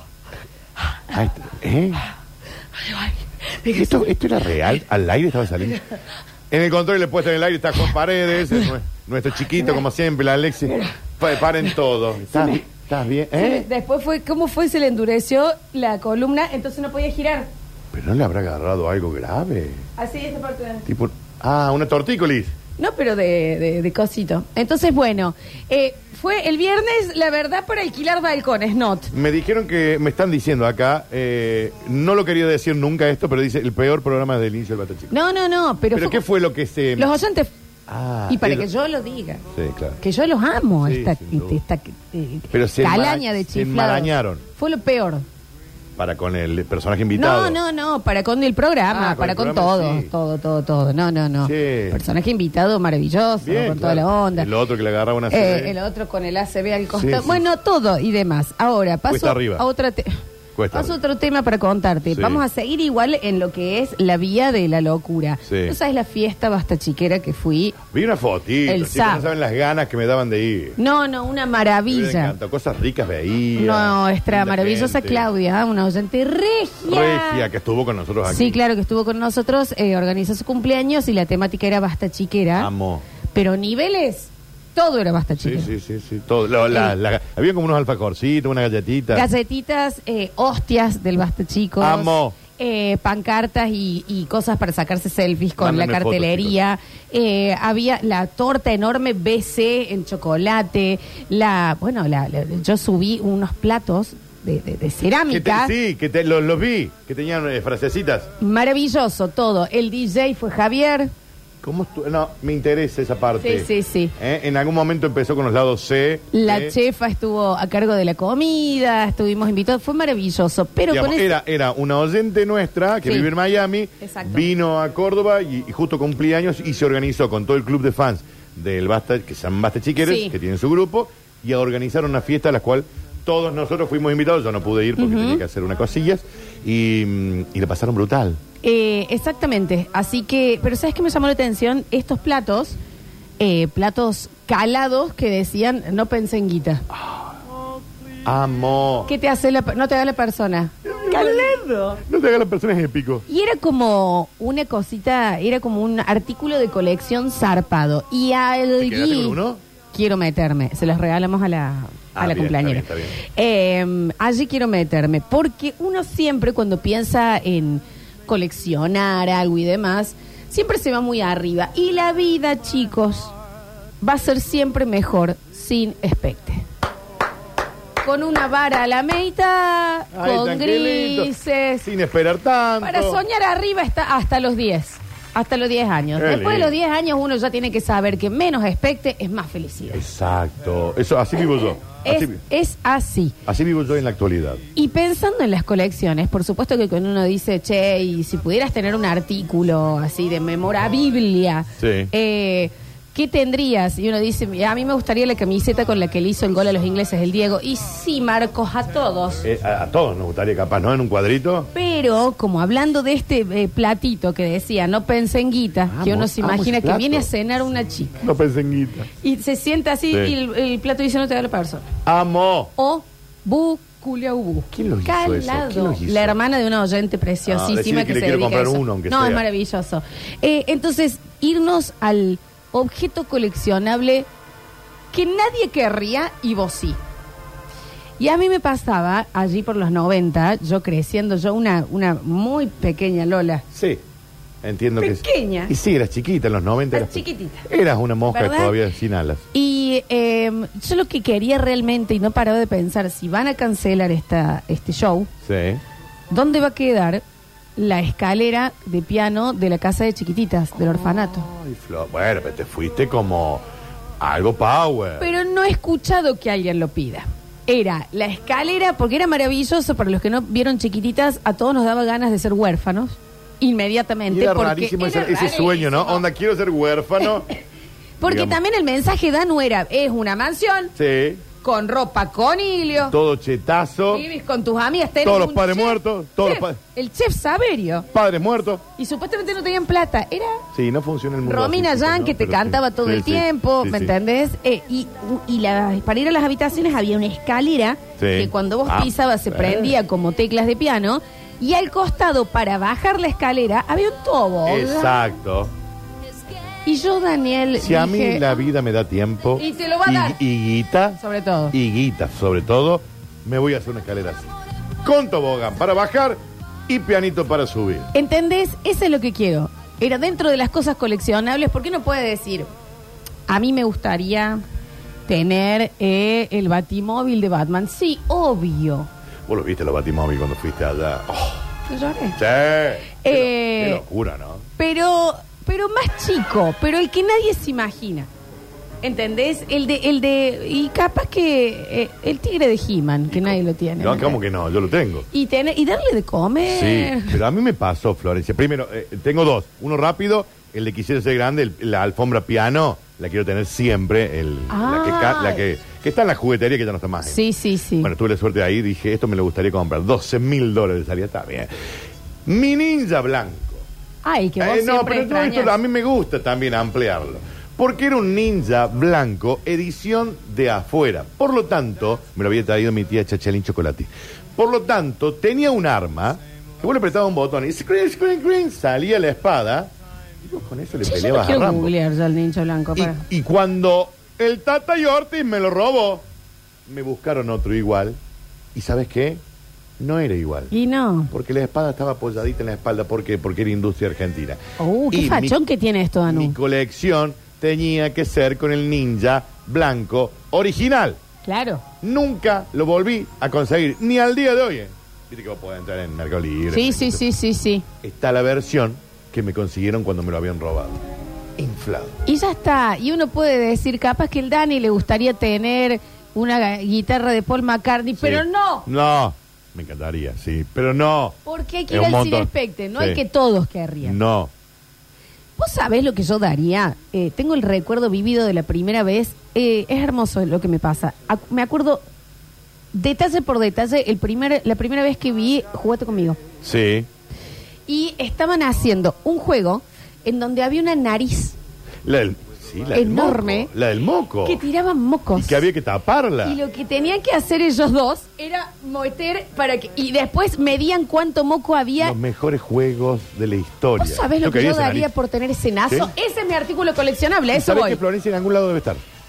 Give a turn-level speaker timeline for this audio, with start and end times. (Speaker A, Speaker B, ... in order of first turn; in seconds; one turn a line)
Speaker A: 1.1-2.0
Speaker B: 2.8-4.1
Speaker A: 3.7-5.8
Speaker A: 6.5-13.7
Speaker B: 12.3-12.6
Speaker B: 13.3-17.5
Speaker A: 17.9-19.8
Speaker B: 20.0-20.9
Speaker A: 20.9-22.5
Speaker B: 22.8-29.1
Speaker A: 29.1-35.1
Speaker B: 35.1-36.2
Speaker A: 35.9-37.1
Speaker B: 37.0-37.5
Speaker A: 37.9-38.7
Speaker B: 38.3-39.4
Speaker A: 39.5-40.0
Speaker B: 40.0-45.2
Speaker A: 40.8-41.6
Speaker A: 42.5-44.4
Speaker A: 46.0-47.6
Speaker B: 47.1-54.5
Speaker A: 48.9-50.1
Speaker A: 51.4-52.0
Speaker A: 53.4-55.8
Speaker B: 55.3-60.2
Speaker A: 56.9-57.4
Speaker A: 59.1-59.6
Speaker A: 60.5-61.0
Speaker B: 60.7-67.8
Speaker A: 62.1-62.4
Speaker A: 65.5-65.8
Speaker A: 67.9-70.8
Speaker B: 68.7-69.2
Speaker B: 70.8-72.3
Speaker A: 71.9-75.3
Speaker B: 73.5-77.5
Speaker A: 76.8-78.6
Speaker B: 78.2-82.7
Speaker A: 82.5-83.0
Speaker B: 83.3-85.7
Speaker A: 85.4-89.3
Speaker B: 86.7-86.9
Speaker B: 89.1-105.7
Speaker A: 91.8-92.4
Speaker A: 95.6-96.5
Speaker A: 105.3-108.3
Speaker B: 108.4-111.1
Speaker A: 111.6-116.8
Speaker B: 113.4-114.1
Speaker B: 116.3-121.3
Speaker A: 120.9-138.4
Speaker B: 124.0-124.5
Speaker B: 130.0-130.3
Speaker B: 135.0-135.4
Speaker B: 138.6-142.8
Speaker B: 143.4-146.8
Speaker A: 146.9-147.3
Speaker A: 148.2-149.1
Speaker B: 149.1-152.0
Speaker A: 150.8-153.2
Speaker B: 153.3-159.4
Speaker A: 158.8-159.6
Speaker B: 159.9-173.3
Speaker A: 162.1-163.2
Speaker B: 174.0-176.6
Speaker B: 178.0-181.8
Speaker A: 180.1-183.2
Speaker B: 182.8-190.0
Speaker A: 186.2-186.8
Speaker A: 189.9-192.4
Speaker B: 192.0-193.3
Speaker A: 193.4-194.6
Speaker B: 194.7-209.4
Speaker A: 201.8-202.1
Speaker A: 209.4-211.7
Speaker B: 211.7-218.2
Speaker A: 215.9-217.3
Speaker A: 218.2-219.1
Speaker B: 219.2-221.9
Speaker A: 222.0-222.7
Speaker B: 222.8-234.3
Speaker A: 224.7-226.4
Speaker A: 227.4-229.4
Speaker B: 235.1-237.0
Speaker B: 238.2-243.6
Speaker A: 243.7-244.0
Speaker A: 244.6-249.4
Speaker B: 245.0-245.7
Speaker B: 246.9-247.7
Speaker B: 248.3-248.8
Speaker B: 249.5-255.3
Speaker A: 255.4-255.8
Speaker B: 256.3-257.2
Speaker B: 257.8-261.5
Speaker A: 260.7-263.6
Speaker A: 264.2-265.3
Speaker B: 265.2-276.2
Speaker A: 274.3-277.5
Speaker B: 278.2-280.9
Speaker A: 278.2-278.6
Speaker A: 280.9-281.4
Speaker B: 281.6-283.1
Speaker A: 283.1-284.2
Speaker B: 284.1-288.1
Speaker A: 285.2-286.8
Speaker A: 288.1-288.8
Speaker B: 288.9-290.6
Speaker A: 290.7-294.1
Speaker B: 291.4-305.2
Speaker A: 298.2-299.9
Speaker A: 304.6-305.7
Speaker B: 306.8-308.5
Speaker A: 307.8-311.2
Speaker B: 309.6-310.4
Speaker B: 311.2-311.7
Speaker A: 311.7-314.5
Speaker A: 315.0-318.1
Speaker B: 318.1-322.7
Speaker B: 323.5-324.6
Speaker B: 325.3-329.1
Speaker A: 329.5-331.6
Speaker B: 331.9-332.4
Speaker A: 332.4-334.6
Speaker B: 333.2-334.0
Speaker B: 334.8-338.3
Speaker B: 339.0-344.4
Speaker A: 343.3-345.3
Speaker B: 345.3-347.4
Speaker A: 346.6-357.4
Speaker B: 354.7-355.6
Speaker B: 357.2-358.1
Speaker A: 358.0-361.7
Speaker A: 362.4-363.8
Speaker B: 364.2-365.7
Speaker A: 364.6-379.9
Speaker A: 380.4-381.9
Speaker B: 381.0-383.2
Speaker A: 382.9-386.2
Speaker A: 386.9-388.2
Speaker A: 388.7-389.4
Speaker A: 390.0-390.7
Speaker B: 390.7-391.3
Speaker A: 391.3-394.6
Speaker B: 394.8-396.5
Speaker A: 395.1-395.6
Speaker A: 396.3-401.2
Speaker B: 401.4-401.8
Speaker A: 402.0-407.2
Speaker B: 406.7-407.9
Speaker A: 408.0-411.0
Speaker A: 411.6-412.2
Speaker B: 412.2-418.9
Speaker A: 418.2-421.4
Speaker B: 421.4-424.1
Speaker A: 421.9-423.2
Speaker A: 424.0-424.5
Speaker B: 425.6-432.0
Speaker B: 432.9-436.4
Speaker A: 436.6-437.1
Speaker B: 437.9-441.6
Speaker A: 442.0-444.6
Speaker B: 442.9-443.7
Speaker B: 444.4-445.6
Speaker A: 445.3-446.6
Speaker B: 446.4-452.2
Speaker A: 452.0-455.1
Speaker B: 454.0-458.0
Speaker A: 457.5-459.0